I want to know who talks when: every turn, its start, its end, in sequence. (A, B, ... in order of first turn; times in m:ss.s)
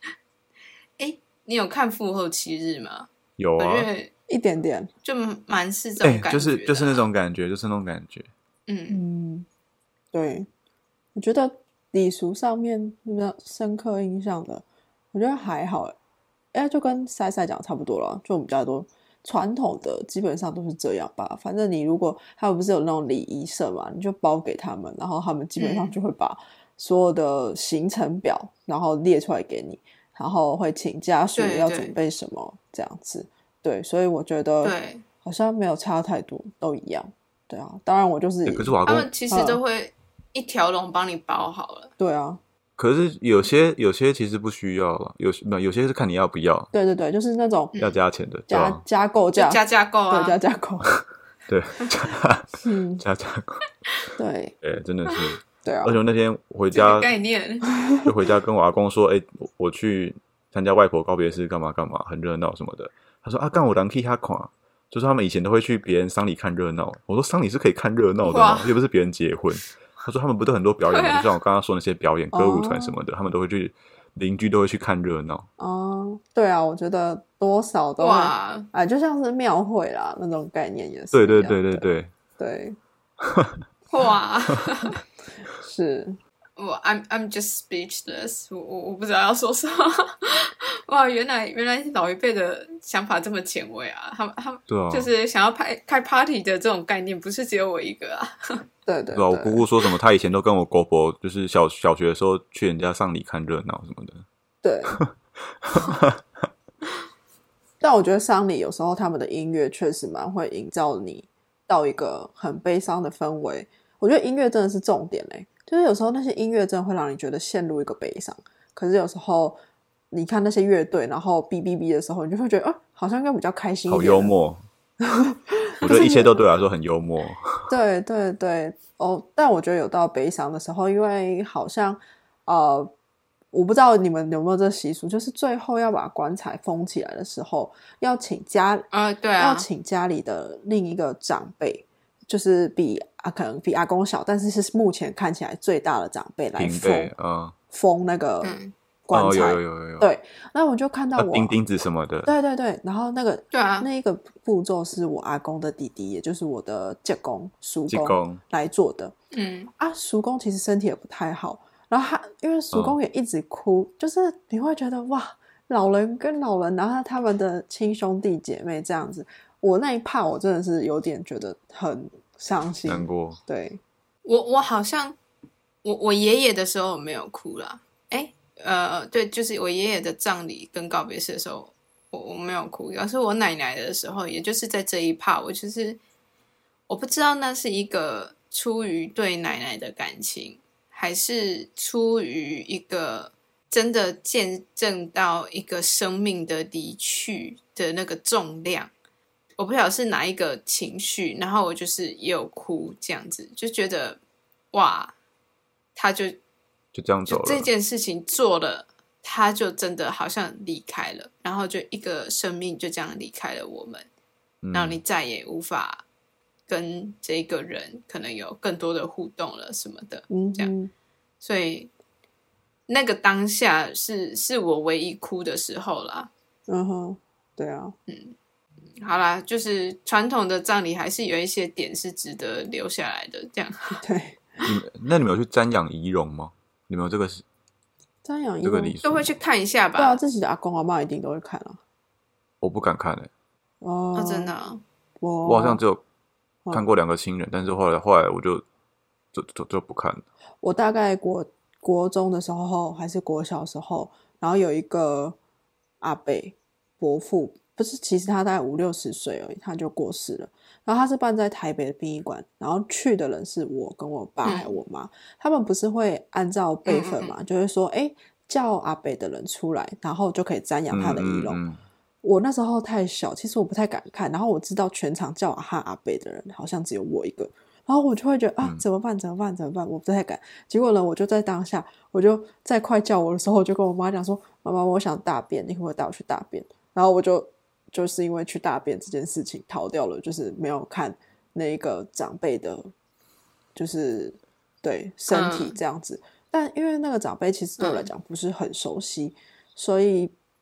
0:01.0-0:04.1 A
0:03.4-0:03.9 B
0:04.3-0:04.9 C
0:05.0-0:07.0 A
0:06.0-0:08.3 B
0:08.7-0:09.0 A
0:08.9-0:09.4 C
0:10.1-0:10.5 C
0:11.1-0:15.9 C
0:16.5-0:38.8 C
0:25.6-0:25.9 A
0:31.4-0:31.9 A
0:34.6-0:35.0 A
0:38.4-0:39.1 B
0:38.9-0:41.9 A
0:39.3-0:39.6 C
0:42.0-0:42.4 C
0:42.8-0:46.7 B
0:46.7-0:47.7 C
0:47.7-0:48.0 A
0:47.8-0:48.8 B
0:48.5-0:50.9 C
0:49.3-0:50.4 A
0:50.9-0:53.7 B
0:52.6-0:53.0 C
0:54.2-0:54.6 C
0:54.6-0:57.1 B
0:55.6-0:56.0 C
0:56.7-0:57.7 A
0:58.0-1:15.5 B
1:08.2-1:08.8 A
1:10.9-1:11.3 A
1:12.3-1:13.0 C
1:15.6-1:22.8 C
1:18.0-1:18.7 A
1:21.1-1:22.1 B
1:23.2-1:23.6 B
1:23.9-1:25.0 A
1:25.6-1:26.2 C
1:26.6-1:38.6 A
1:34.7-1:35.1 B
1:38.8-1:39.6 C
1:39.1-1:44.2 B
1:44.6-1:45.0 C
1:45.6-1:46.2 B
1:47.8-1:59.6 C
2:00.1-2:04.3 C
2:03.9-2:04.6 B
2:05.0-2:06.5 C
2:05.8-2:07.7 B
2:07.7-2:12.9 C
2:13.5-2:18.9 C
2:18.9-2:19.7 A
2:19.4-2:27.1 C
2:26.6-2:27.5 B
2:27.7-2:31.5 C
2:28.4-2:28.7 A
2:29.1-2:30.1 B
2:31.2-2:32.3 B
2:32.2-2:39.1 C
2:33.5-2:33.9 A
2:37.9-2:38.4 B
2:39.3-2:39.7 A
2:39.8-2:53.8 C
2:42.7-2:43.0 B
2:52.8-2:53.4 B
2:54.2-2:55.2 A
2:55.8-3:06.0 A
3:06.9-3:18.9 A
3:19.6-3:24.2 A
3:24.7-3:25.1 A
3:26.0-3:26.4 A
3:26.9-3:27.7 B
3:27.3-3:34.1 A
3:34.6-3:35.0 B
3:34.7-3:36.0 A
3:36.7-3:40.7 A
3:40.3-3:40.9 C
3:41.4-3:41.9 A
3:42.9-3:46.3 A
3:46.7-3:47.9 C
3:48.1-3:48.3 A
3:49.0-3:54.0 A
3:54.0-3:54.4 C
3:54.6-3:57.4 B
3:58.2-3:59.0 C
3:58.6-3:59.3 B
3:59.0-4:00.2 A
4:00.0-4:01.8 C
4:02.6-4:03.3 B
4:03.8-4:04.5 C
4:04.1-4:04.8 A
4:05.2-4:05.8 C
4:05.4-4:06.0 B
4:06.7-4:08.6 B
4:09.3-4:10.2 B
4:10.6-4:15.4 C
4:16.0-4:31.6 C
4:24.4-4:24.8 A
4:26.8-4:27.3 A
4:30.9-4:31.8 B
4:32.2-4:52.9 C
4:53.7-5:00.3 C
4:55.3-4:55.8 A
4:57.8-4:58.1 A